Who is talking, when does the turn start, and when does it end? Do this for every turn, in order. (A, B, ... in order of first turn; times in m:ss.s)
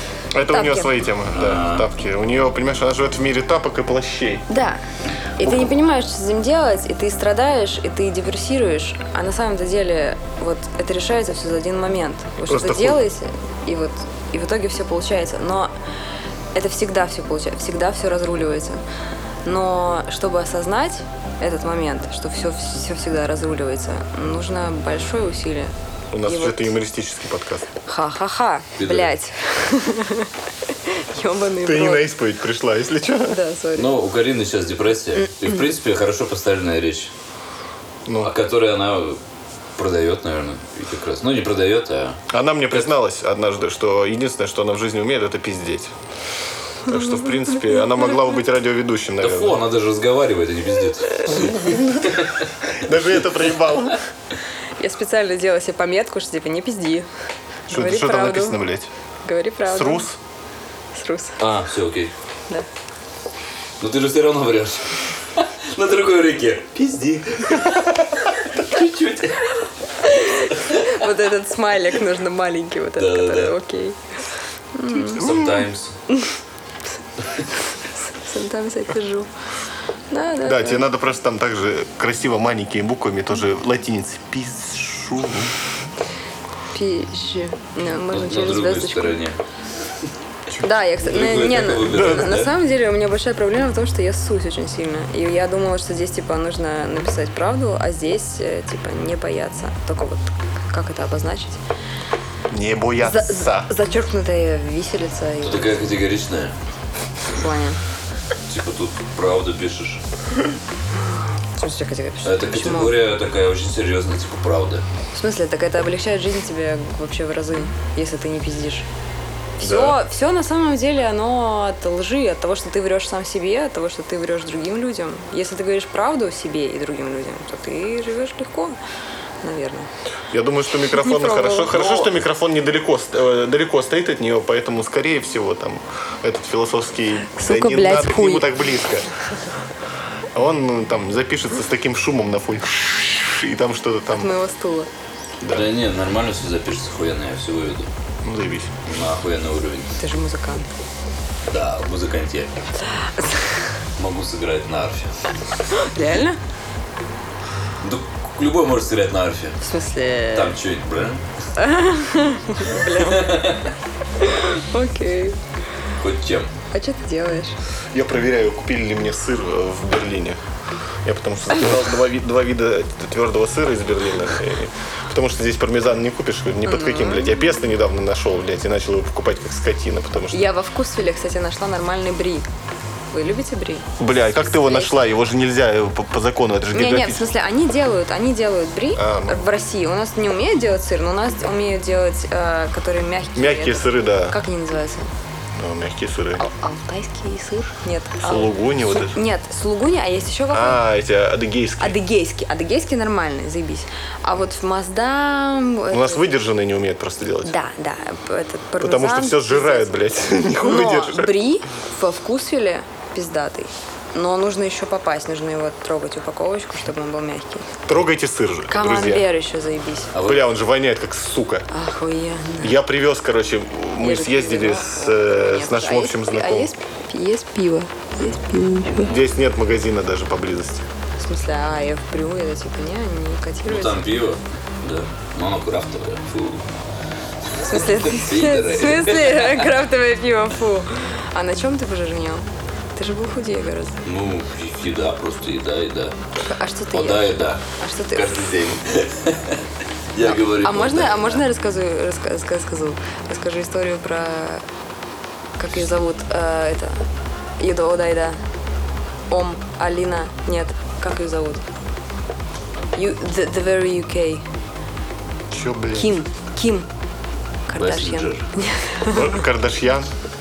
0:00.3-0:04.4 A
0:00.5-0:01.0 B
0:01.3-0:01.8 C
0:04.5-0:04.8 B
0:05.4-0:15.7 B
0:05.4-0:05.7 A
0:12.5-0:13.0 A
0:16.5-0:18.8 B
0:19.4-0:25.7 B
0:26.1-0:27.7 A
0:26.2-0:26.7 B
0:27.9-0:30.3 B
0:28.8-0:29.1 C
0:30.8-0:32.1 B
0:31.6-0:33.4 A
0:33.3-0:33.9 B
0:33.8-0:37.1 C
0:38.0-0:38.3 A
0:38.2-0:39.2 C
0:39.8-0:42.2 C
0:42.3-0:45.9 A
0:46.8-0:49.6 A
0:49.2-0:52.5 C
0:51.3-0:54.0 A
0:54.8-0:57.1 B
0:57.7-0:58.6 B
0:57.7-0:58.9 A
0:59.2-1:00.1 B
0:59.7-1:00.2 A
1:00.9-1:01.4 B
1:01.4-1:02.1 C
1:03.8-1:09.6 C
1:10.0-1:14.0 B
1:10.5-1:10.9 C
1:13.0-1:13.5 C
1:14.7-1:15.2 B
1:15.0-1:15.9 C
1:18.0-1:19.3 B
1:20.1-1:20.8 B
1:20.4-1:25.5 A
1:26.7-1:29.2 B
1:28.1-1:29.4 C
1:30.6-1:41.6 B
1:31.0-1:32.5 C
1:31.9-1:32.3 A
1:42.5-1:43.7 A
1:43.0-1:45.8 B
1:45.4-1:46.5 C
1:47.3-1:47.8 B
1:48.5-1:50.0 C
1:51.6-1:52.9 B
1:52.2-1:54.8 C
1:55.1-1:58.8 B
1:59.6-2:08.8 B
1:59.6-2:00.0 A
2:09.4-2:09.9 B
2:10.3-2:19.1 A
2:10.8-2:11.7 B
2:11.7-2:12.1 C
2:17.3-2:18.5 B
2:20.3-2:24.3 A
2:24.1-2:24.9 B
2:25.4-2:27.9 C
2:28.2-2:28.7 A
2:28.8-2:29.9 C
2:30.0-2:30.7 B
2:31.5-2:32.5 C
2:34.0-2:35.1 C
2:35.7-2:36.4 B
2:37.8-2:39.6 C
2:39.6-2:40.5 B
2:40.3-2:41.2 C
2:41.6-2:43.5 B
2:42.9-2:43.7 C
2:44.2-2:45.4 B
2:46.0-2:46.5 C
2:46.7-2:47.6 B
2:47.9-2:50.4 A
2:51.0-3:00.5 A
2:56.6-2:57.5 B
3:00.3-3:02.5 B
3:03.1-3:05.0 B
3:04.0-3:07.3 A
3:06.7-3:15.1 B
3:09.0-3:09.4 A
3:13.4-3:14.4 A
3:15.5-3:16.4 A
3:16.4-3:20.8 B
3:18.2-3:19.2 A
3:20.5-3:22.0 A
3:21.8-3:26.3 B
3:25.9-3:27.5 A
3:27.4-3:37.7 B
3:28.8-3:31.3 A
3:37.9-3:39.2 A
3:38.7-3:40.1 B
3:40.1-3:40.5 C
3:40.2-3:41.7 A
3:41.7-3:42.8 B
3:42.6-3:46.7 A
3:44.0-3:49.1 B
3:48.9-3:50.9 A
3:49.0-3:49.2 C
3:51.2-3:54.0 B
3:53.6-3:56.6 C
3:57.5-3:59.7 C
3:57.6-4:04.0 B
4:04.0-4:06.2 C
4:06.4-4:08.5 B
4:06.9-4:07.6 C
4:08.1-4:09.6 C
4:10.1-4:11.4 C
4:10.2-4:14.6 B
4:15.6-4:17.0 B
4:17.6-4:18.4 B
4:19.3-4:21.6 B
4:22.9-4:24.4 B
4:25.5-4:26.1 A
4:25.9-4:26.9 B
4:27.7-4:29.4 B
4:27.8-4:28.4 C
4:29.1-4:30.1 A